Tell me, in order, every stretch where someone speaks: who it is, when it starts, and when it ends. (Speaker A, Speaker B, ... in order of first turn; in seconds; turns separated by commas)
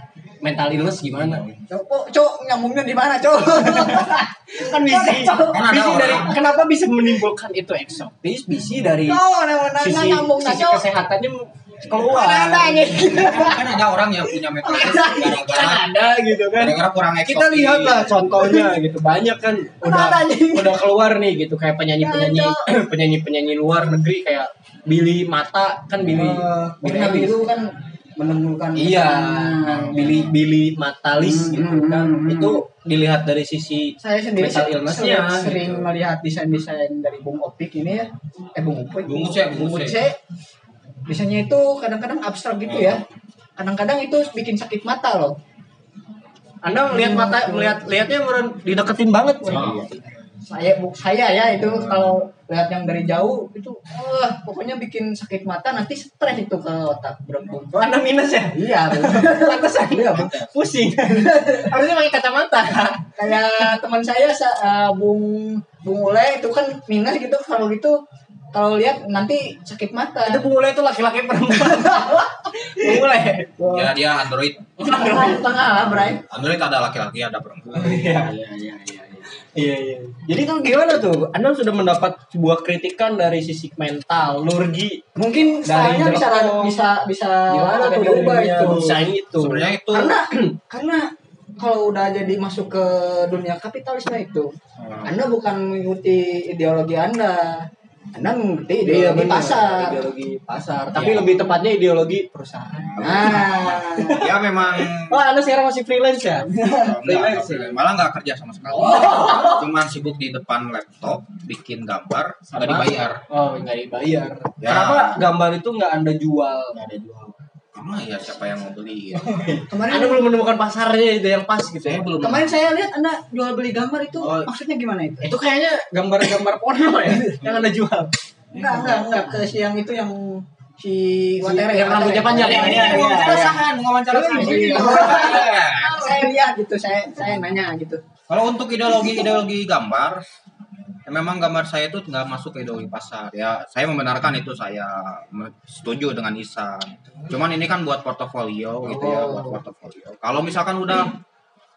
Speaker A: 0.4-1.4, Speaker B: 1.2-1.6, Speaker C: 1.7-5.7, Speaker A: 3.6-9.2, Speaker B: 5.4-6.4, Speaker C: 9.1-10.8, Speaker A: 9.8-13.6, Speaker C: 12.0-13.5, Speaker B: 13.1-15.8, Speaker A: 14.6-27.4, Speaker B: 16.5-18.3, Speaker C: 19.8-20.7, Speaker C: 22.0-22.7, Speaker C: 26.1-30.3, Speaker A: 28.8-35.8, Speaker C: 31.2-32.6, Speaker C: 34.0-40.2, Speaker B: 39.0-40.0, Speaker C: 41.1-43.0, Speaker B: 42.7-43.0, Speaker C: 43.6-45.4, Speaker A: 46.6-49.9, Speaker C: 46.9-47.8, Speaker B: 49.5-49.9, Speaker C: 49.6-49.9, Speaker C: 50.4-57.8, Speaker A: 57.7-63.0, Speaker C: 58.5-60.4, Speaker B: 60.2-60.5, Speaker C: 63.2-68.0, Speaker C: 68.5-70.5, Speaker A: 70.2-73.6, Speaker C: 73.6-73.9, Speaker B: 73.7-74.8, Speaker C: 74.8-76.2, Speaker A: 74.8-75.4, Speaker B: 76.0-79.1, Speaker A: 77.7-78.4, Speaker A: 79.3-85.0, Speaker C: 85.2-89.0, Speaker A: 85.6-86.7, Speaker A: 87.5-89.7, Speaker B: 89.4-90.1, Speaker C: 89.9-91.1, Speaker C: 91.6-94.5, Speaker B: 94.8-95.1, Speaker C: 95.0-100.0, Speaker A: 98.8-103.5, Speaker B: 100.9-101.4, Speaker B: 102.8-105.2, Speaker C: 103.0-104.2, Speaker A: 104.0-107.8, Speaker B: 106.8-113.2, Speaker A: 108.7-109.6, Speaker C: 108.9-109.3, Speaker A: 112.5-116.8, Speaker B: 114.6-115.2, Speaker B: 116.7-119.3, Speaker A: 119.2-122.1, Speaker C: 119.7-120.3, Speaker B: 121.8-122.5, Speaker C: 122.2-125.3, Speaker B: 124.2-124.5, Speaker A: 125.2-128.1, Speaker B: 128.5-129.1, Speaker C: 128.5-133.6, Speaker A: 131.4-133.6, Speaker B: 132.4-136.1, Speaker C: 134.1-138.0, Speaker A: 134.6-135.3, Speaker B: 138.3-140.2, Speaker B: 141.1-151.2, Speaker C: 148.9-149.6